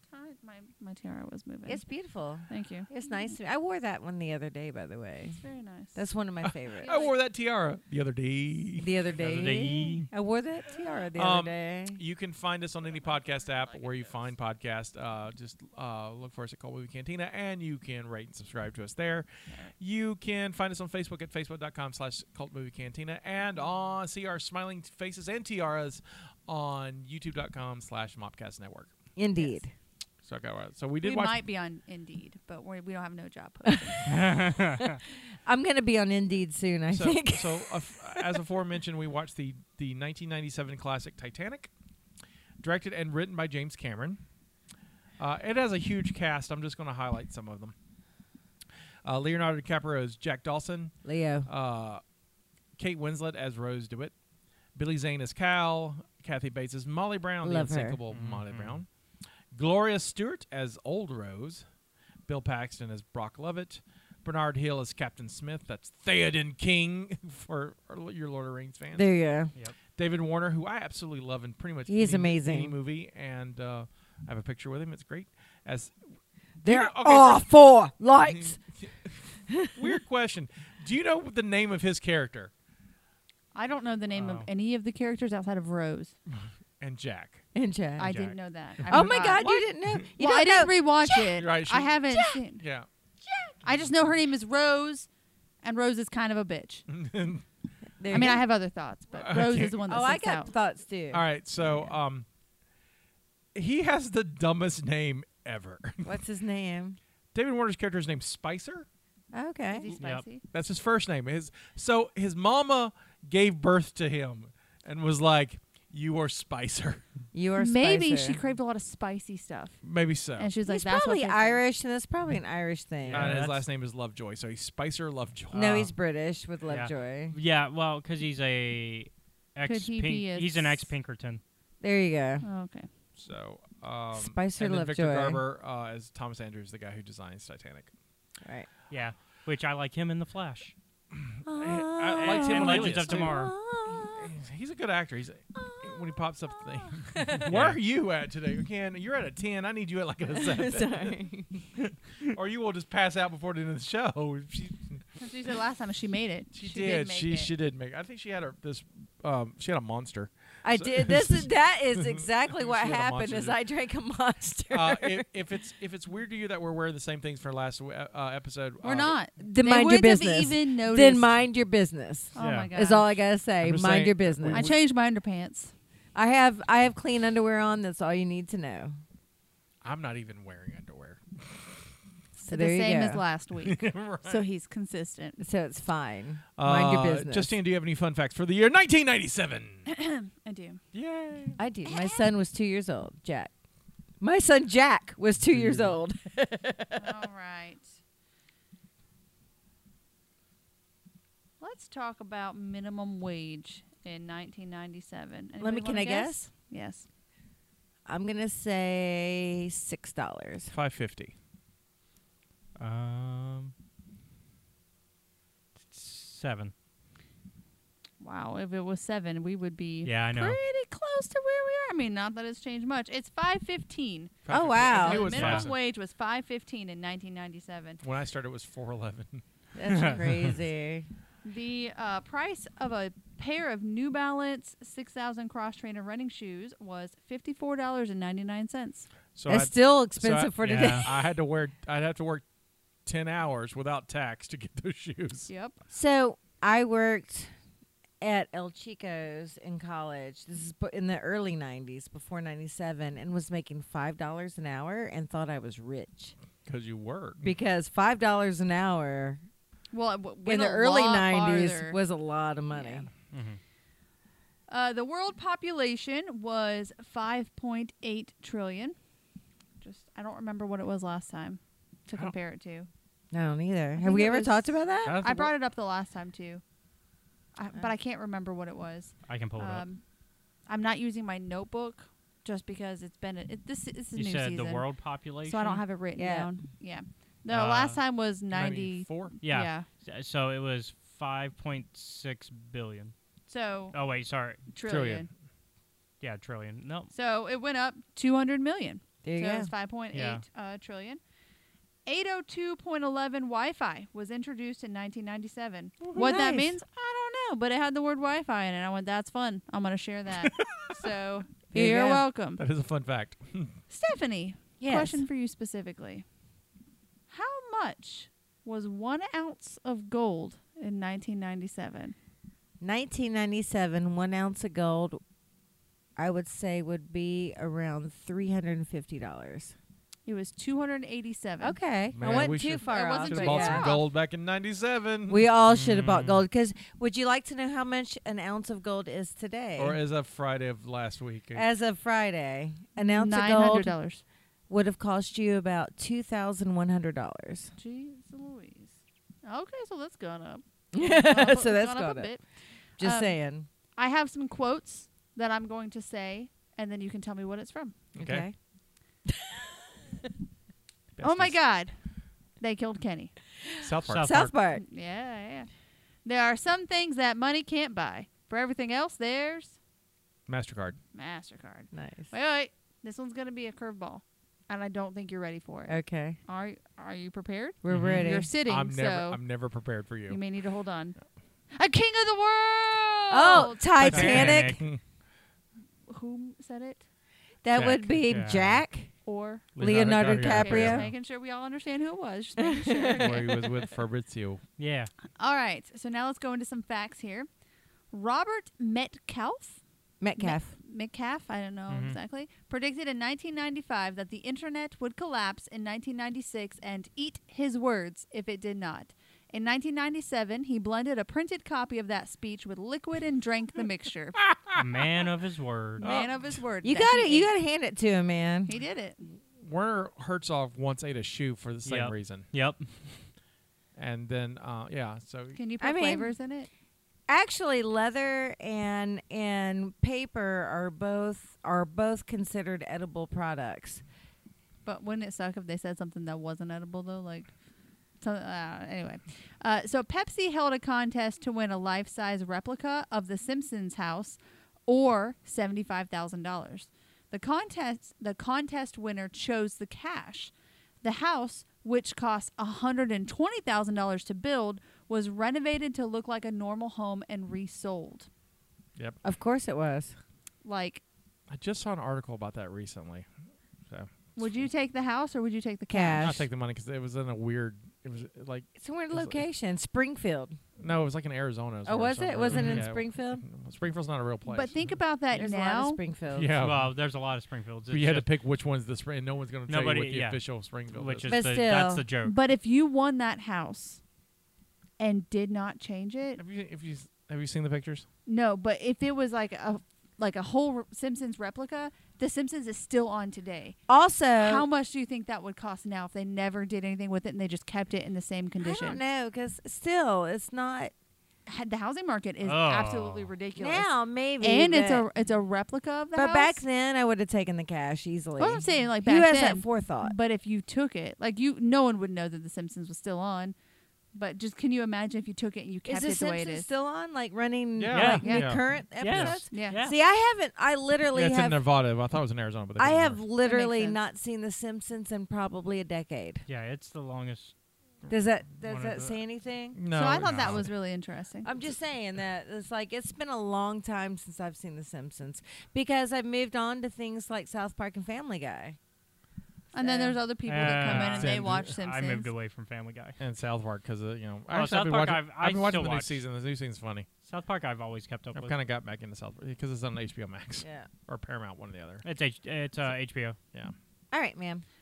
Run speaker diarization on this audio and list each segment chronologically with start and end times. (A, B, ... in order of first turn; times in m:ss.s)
0:00.1-0:01.8 A
0:01.7-0:05.4 B
0:02.5-0:03.3 A
0:05.4-0:06.0 A
0:06.0-0:07.0 B
0:06.4-0:08.9 C
0:06.8-0:07.1 A
0:08.8-0:12.0 B
0:09.2-0:10.1 D
0:11.2-0:29.0 C
0:13.0-0:14.2 A
0:29.2-0:29.7 B
0:29.4-0:29.6 A
0:30.2-0:31.4 C
0:31.0-0:34.0 A
0:33.6-0:38.4 B
0:34.1-0:35.0 D
0:36.9-0:41.7 C
0:42.6-0:44.2 C
0:45.2-0:47.8 C
0:49.0-0:50.9 C
0:51.0-0:51.5 B
0:51.5-0:52.0 C
0:52.8-0:54.1 C
0:54.8-0:58.9 C
0:57.4-0:58.0 B
0:58.1-0:58.8 D
0:59.5-1:01.6 C
1:02.3-1:09.1 C
1:09.0-1:09.5 B
1:10.0-1:16.0 C
1:11.9-1:12.7 B
1:16.6-1:17.5 C
1:16.6-1:18.6 B
1:18.3-1:22.5 C
1:19.5-1:20.0 B
1:23.6-1:26.1 A
1:24.1-1:24.5 D
1:26.3-1:27.4 C
1:27.5-1:28.1 B
1:28.0-1:28.4 D
1:28.0-1:29.5 A
1:28.8-1:30.1 C
1:28.9-1:31.4 B
1:30.2-1:32.6 A
1:31.4-1:32.0 C
1:32.1-1:32.4 B
1:32.6-1:32.9 C
1:33.2-1:33.6 B
1:33.6-1:35.1 A
1:35.6-1:36.8 A
1:36.9-1:37.4 C
1:38.0-1:38.4 B
1:38.1-1:40.5 A
1:39.1-1:39.8 C
1:39.8-1:41.2 B
1:41.1-1:42.3 C
1:43.6-1:46.2 C
1:46.0-1:47.0 B
1:47.4-1:48.9 C
1:49.3-1:49.9 B
1:49.7-1:50.4 A
1:50.0-1:50.2 D
1:50.5-1:57.0 C
1:57.3-1:58.4 B
1:57.6-1:59.8 A
1:59.8-2:00.5 C
2:00.4-2:01.6 A
2:00.7-2:03.4 B
2:03.0-2:03.6 D
2:03.1-2:05.9 C
2:05.5-2:07.4 B
2:06.7-2:11.4 D
2:09.7-2:10.9 A
2:11.8-2:12.5 B
2:12.4-2:12.9 A
2:13.2-2:17.9 C
2:14.1-2:15.4 B
2:18.4-2:18.7 B
2:18.9-2:20.7 D
2:21.3-2:23.4 C
2:21.5-2:24.3 B
2:22.2-2:23.5 D
2:23.9-2:31.2 C
2:25.6-2:27.5 B
2:27.5-2:27.8 D
2:30.3-2:31.5 B
2:32.2-2:35.0 C
2:35.2-2:37.5 A
2:36.5-2:43.6 C
2:40.6-2:45.2 B
2:44.7-2:49.2 C
2:48.8-2:51.3 A
2:49.4-2:54.7 B
2:52.4-2:53.1 A
2:52.4-2:52.7 D
2:53.6-2:54.8 C
2:54.5-2:55.7 A
2:56.2-2:59.0 B
2:59.8-3:01.8 C
3:02.4-3:03.2 B
3:02.4-3:05.4 A
3:03.6-3:04.4 C
3:05.4-3:07.6 B
3:06.6-3:09.8 C
3:09.9-3:10.8 A
3:10.9-3:11.6 C
3:11.6-3:13.5 B
3:11.8-3:12.3 A
3:14.2-3:17.2 B
3:15.4-3:16.0 C
3:17.0-3:17.9 A
3:21.6-3:27.0 A
3:25.6-3:26.5 B
3:28.1-3:30.7 B
3:30.7-3:31.3 C
3:32.8-3:33.7 D
3:35.9-3:36.7 D
3:38.2-3:48.0 A
3:40.0-3:40.6 D
3:44.4-3:45.8 C
3:44.5-3:45.4 B
3:45.3-3:45.7 D
3:48.0-3:49.4 C
3:49.8-3:51.1 B
3:49.9-3:50.2 D
3:51.4-3:59.1 A
3:59.4-4:02.4 C
3:59.5-4:01.3 B
4:00.6-4:01.1 D
4:03.1-4:05.5 C
4:05.5-4:05.8 A
4:05.9-4:07.5 B
4:08.2-4:16.4 B
4:16.6-4:17.5 C
4:17.4-4:19.4 B
4:19.9-4:22.0 A
4:20.4-4:23.1 B
4:22.7-4:23.1 A
4:23.3-4:23.6 D
4:24.7-4:29.0 A
4:29.8-4:32.9 A
4:33.3-4:35.2 B
4:34.0-4:36.6 A
4:35.0-4:35.5 C
4:37.6-4:40.0 A
4:39.3-4:39.8 D
4:40.7-4:44.8 A
4:44.2-4:45.8 D
4:45.4-4:49.8 A
4:46.2-4:46.5 B
4:47.5-4:48.0 D
4:48.5-4:49.4 C
4:49.4-4:53.1 D
4:53.5-4:54.0 A
4:53.9-4:54.6 D
4:54.7-4:55.3 A
4:54.8-4:55.3 C
4:56.2-4:57.1 D
4:57.1-5:01.2 A
4:59.2-4:59.7 B
5:00.1-5:00.4 D
5:02.1-5:12.6 A
5:06.1-5:06.8 B
5:10.4-5:11.0 C
5:11.7-5:12.2 B
5:12.6-5:13.8 C
5:13.9-5:16.2 A
5:14.8-5:15.2 B
5:17.3-5:22.2 A
5:22.8-5:25.2 B
5:26.2-5:29.8 B
5:30.3-5:34.1 A
5:31.6-5:33.9 B
5:32.1-5:35.5 C
5:35.3-5:40.0 B
5:35.7-5:36.4 D
5:39.8-5:41.7 C
5:41.6-5:43.9 B
5:43.0-5:44.2 A
5:44.7-5:47.7 B
5:47.8-5:52.4 A
5:50.9-5:52.3 B
5:53.0-5:53.7 B
5:53.0-5:53.4 A
5:53.9-5:58.0 A
5:58.2-5:58.6 B
5:58.2-5:58.5 C
5:59.3-5:59.6 B
6:01.2-6:01.6 C
6:01.2-6:01.9 A
6:02.6-6:03.3 A
6:03.8-6:04.5 C
6:04.1-6:04.4 D
6:04.2-6:04.8 B
6:04.7-6:05.7 A
6:06.2-6:09.8 A
6:10.5-6:11.0 C
6:11.1-6:19.4 A
6:11.9-6:12.3 B
6:15.9-6:16.4 B
6:17.8-6:18.5 B
6:17.9-6:18.3 D
6:18.7-6:20.4 C
6:20.3-6:21.2 A
6:21.7-6:24.2 A
6:23.3-6:24.8 B
6:24.0-6:25.0 C
6:24.0-6:24.8 D
6:26.1-6:27.0 A
6:27.6-6:29.1 B
6:27.8-6:28.8 D
6:29.2-6:29.7 A
6:29.8-6:31.1 C
6:29.8-6:31.1 B
6:30.4-6:33.6 A
6:32.6-6:33.4 B
6:33.2-6:34.6 C
6:34.8-6:35.1 D
6:35.4-6:37.5 A
6:38.1-6:39.8 A
6:40.2-6:40.7 B
6:40.4-6:54.4 A
6:41.9-6:42.2 D
6:54.4-6:55.1 C
6:54.8-6:56.1 D
6:56.0-6:57.5 A
6:56.0-6:56.6 C
6:56.8-6:58.7 B
6:58.6-6:59.2 A
6:59.2-7:02.5 C
7:01.8-7:02.8 D
7:04.0-7:05.6 C
7:05.5-7:06.7 A
7:05.8-7:06.3 B
7:07.3-7:14.0 B
7:14.8-7:17.5 A
7:18.2-7:30.5 A
7:31.0-7:38.3 A
7:39.2-7:40.2 B
7:40.6-7:41.0 A
7:41.5-7:43.3 C
7:43.9-7:44.7 C
7:44.4-7:46.3 A
7:45.9-7:46.5 B
7:46.2-7:49.4 C
7:48.8-7:50.6 B
7:50.8-7:55.0 C
7:51.9-7:53.4 B
7:52.5-7:52.9 D
7:54.5-7:56.0 A
7:55.3-7:56.5 B
7:56.3-7:56.9 C
7:56.6-7:58.3 D
7:57.9-8:01.4 C
7:59.7-8:00.4 D
8:00.9-8:02.4 D
8:01.3-8:02.0 B
8:02.2-8:04.0 A
8:05.0-8:06.4 A
8:06.4-8:08.0 C
8:08.3-8:13.8 A
8:13.9-8:14.7 B
8:14.4-8:19.0 A
8:18.6-8:20.9 B
8:21.5-8:26.6 A
8:22.4-8:23.3 D
8:23.6-8:25.1 B
8:26.1-8:30.2 B
8:28.4-8:33.6 A
8:34.1-8:36.7 A
8:35.8-8:41.6 B
8:37.8-8:39.4 C
8:37.9-8:40.0 D
8:38.2-8:38.5 A
8:39.5-8:39.8 A
8:41.1-8:43.2 C
8:42.8-8:46.4 B
8:43.4-8:44.0 A
8:46.5-8:47.5 D
8:48.1-8:49.8 B
8:48.6-8:49.2 D
8:49.7-8:50.7 C
8:49.9-8:51.5 A
8:50.2-8:50.6 D
8:51.4-8:58.8 B
8:59.7-9:02.3 A
8:59.7-9:00.2 B
9:00.4-9:03.2 D
9:00.9-9:01.7 C
9:03.2-9:07.1 C
9:04.5-9:06.2 D
9:07.2-9:08.6 D
9:08.4-9:12.0 C
9:10.6-9:10.9 B
9:12.0-9:13.4 D
9:14.1-9:14.6 B